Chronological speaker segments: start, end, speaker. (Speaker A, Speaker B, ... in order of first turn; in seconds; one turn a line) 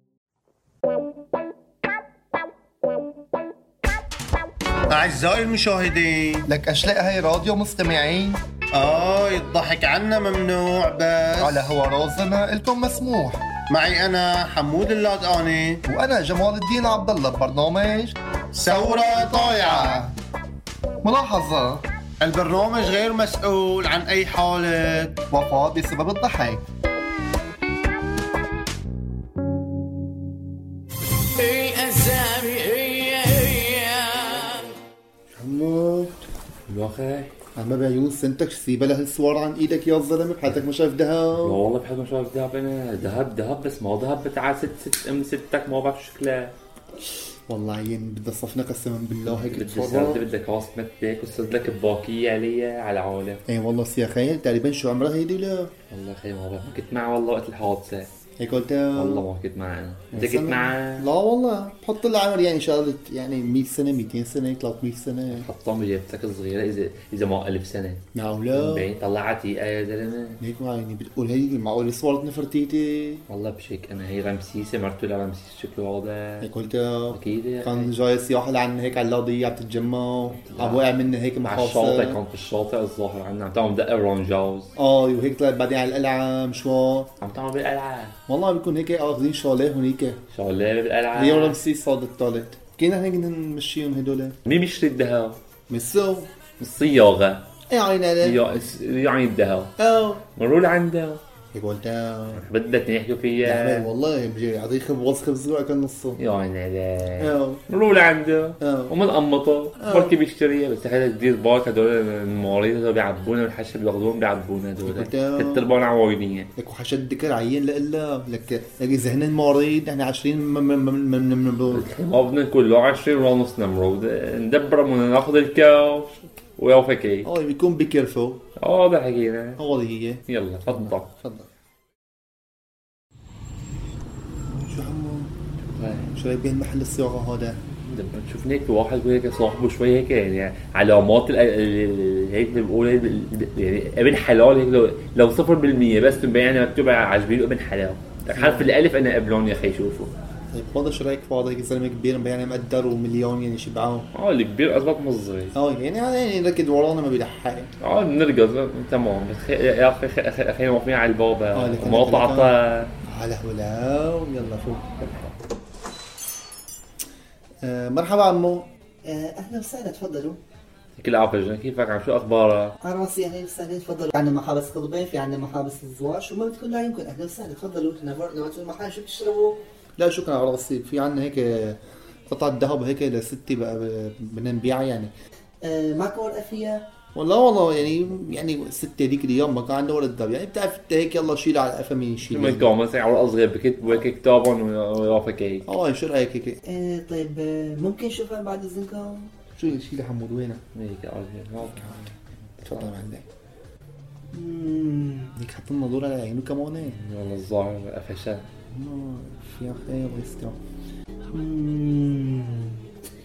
Speaker A: 4.9-6.5
Speaker B: 6.5-8.4
Speaker A: 8.7-11.7
Speaker B: 11.4-13.4
Speaker A: 13.7-15.8
Speaker B: 15.9-18.2
Speaker A: 18.5-20.1
Speaker B: 21.0-21.9
Speaker A: 22.2-25.3
Speaker B: 25.3-26.6
Speaker C: 31.4-34.1
Speaker B: 35.3-36.2
Speaker D: 36.7-37.3
Speaker B: 37.6-41.6
Speaker D: 41.4-46.5
Speaker B: 47.5-50.3
Speaker D: 49.3-53.4
Speaker B: 53.5-55.7
Speaker D: 55.9-58.1
Speaker B: 58.4-59.3
Speaker D: 58.9-61.1
Speaker B: 60.1-65.5
Speaker D: 65.3-70.4
Speaker B: 68.2-68.9
Speaker B: 70.4-73.2
Speaker D: 73.3-76.5
Speaker B: 76.4-82.2
Speaker D: 77.1-77.9
Speaker D: 80.3-80.9
Speaker D: 81.4-84.7
Speaker B: 84.8-87.1
Speaker D: 87.2-88.2
Speaker B: 88.3-90.2
Speaker D: 90.3-91.6
Speaker B: 91.1-94.4
Speaker D: 94.5-95.4
Speaker B: 95.7-96.3
Speaker D: 96.6-97.4
Speaker B: 97.7-98.4
Speaker D: 98.2-99.7
Speaker B: 99.8-100.2
Speaker D: 100.3-101.2
Speaker B: 101.5-102.5
Speaker D: 102.3-103.9
Speaker B: 103.4-106.2
Speaker D: 106.2-116.5
Speaker B: 107.2-107.6
Speaker B: 108.6-109.0
Speaker B: 109.8-110.2
Speaker B: 114.8-115.7
Speaker B: 116.6-121.9
Speaker D: 121.7-127.3
Speaker B: 127.2-128.4
Speaker D: 128.6-129.6
Speaker B: 129.6-131.5
Speaker D: 130.3-131.1
Speaker B: 134.5-135.3
Speaker D: 135.6-136.1
Speaker B: 136.1-137.6
Speaker D: 137.9-150.1
Speaker B: 148.3-148.7
Speaker B: 150.5-154.1
Speaker D: 154.1-155.6
Speaker B: 155.5-157.7
Speaker D: 157.8-162.9
Speaker B: 161.5-162.6
Speaker B: 163.1-165.3
Speaker B: 167.6-168.7
Speaker E: 169.1-170.4
Speaker D: 171.0-172.8
Speaker E: 172.8-179.6
Speaker B: 180.0-185.1
Speaker E: 185.6-186.9
Speaker B: 187.1-192.7
Speaker D: 192.2-195.7
Speaker B: 195.7-196.6
Speaker E: 196.6-199.4
Speaker B: 199.5-200.6
Speaker D: 200.7-203.0
Speaker B: 201.6-203.2
Speaker E: 204.3-205.3
Speaker B: 205.4-207.0
Speaker D: 206.8-208.4
Speaker B: 208.7-210.6
Speaker E: 211.3-212.8